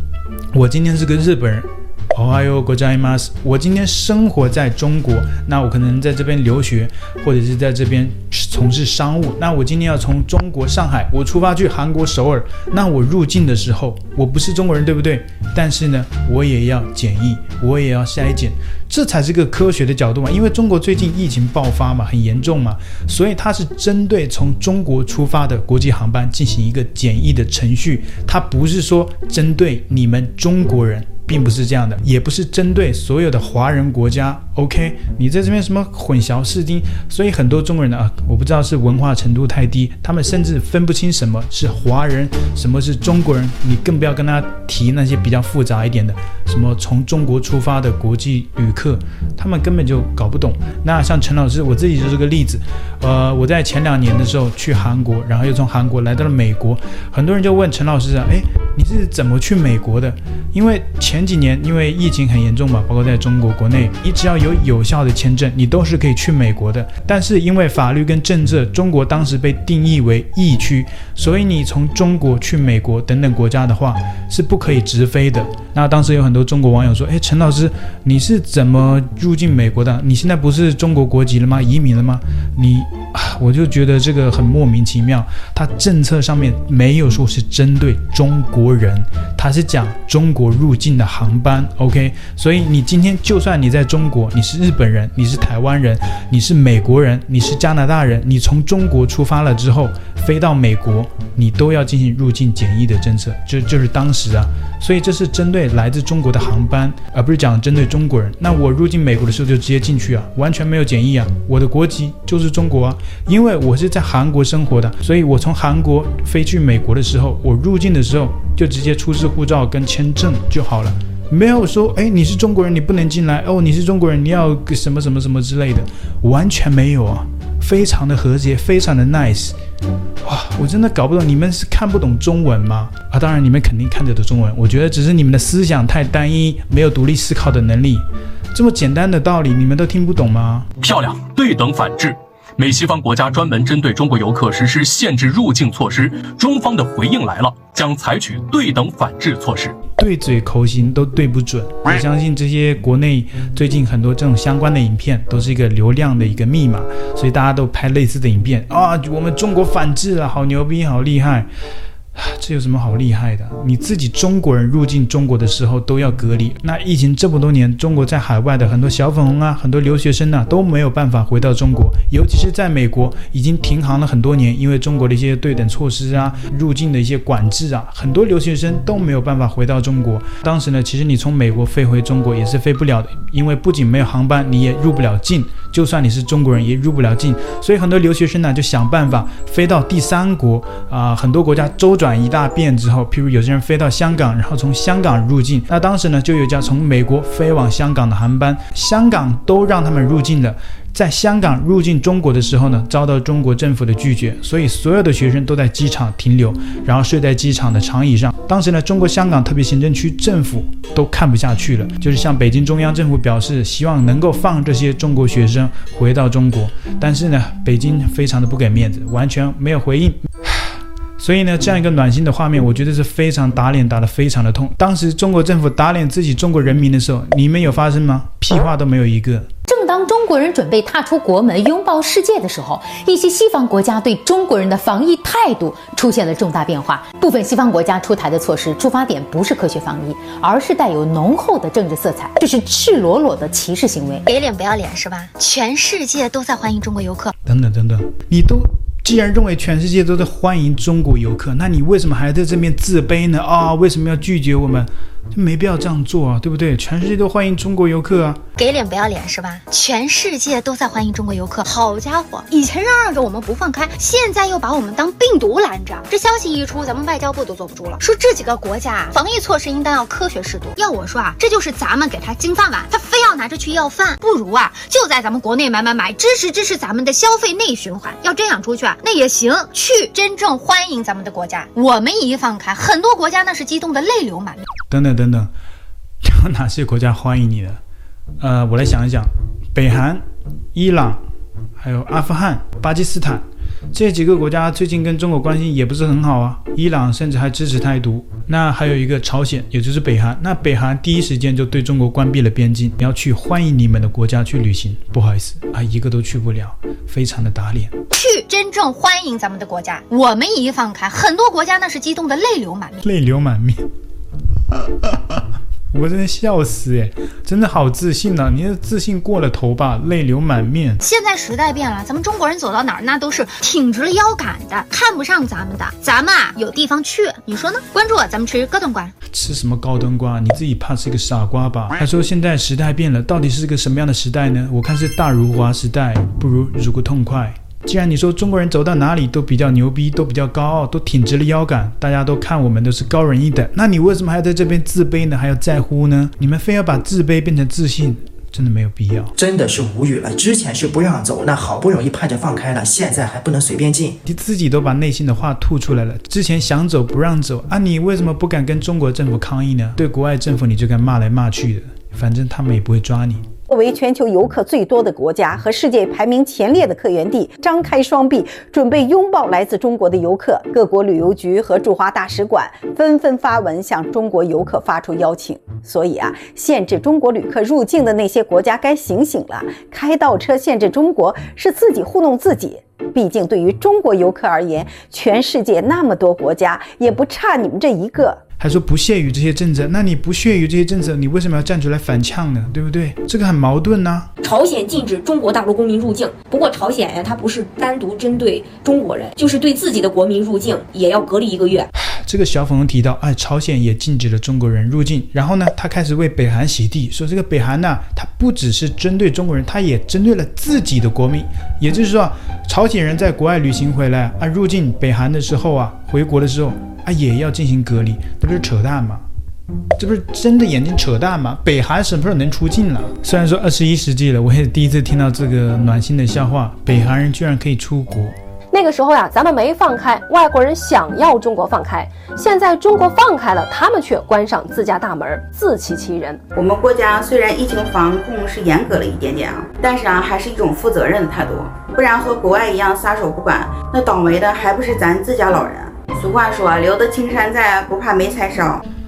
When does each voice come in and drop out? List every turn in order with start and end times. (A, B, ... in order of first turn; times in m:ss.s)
0:00.5-2:09.6 A
2:10.2-2:20.7 A
2:20.8-2:29.8 B
2:30.0-2:41.5 A
2:42.2-3:40.3 A
3:41.2-3:49.5 A
3:49.7-4:04.2 C
4:04.3-4:07.3 D
4:07.4-4:18.4 A
4:18.6-4:44.6 D
4:44.9-4:45.5 A
4:46.2-4:47.8 A
4:48.4-4:51.2 A
4:51.8-5:07.9 A
5:08.1-5:13.0 D
5:13.0-5:13.8 A
5:14.8-5:15.4 A
5:15.9-5:21.0 A
5:21.0-5:29.1 D
5:29.3-5:49.3 A
5:49.4-5:54.1 E
5:54.2-6:03.4 A
6:03.7-6:28.4 F
6:28.6-6:34.3 A
6:34.4-6:41.7 G
6:42.2-6:59.2 A
7:00.0-7:08.3 A
7:08.7-7:16.4 H
7:16.5-7:28.8 I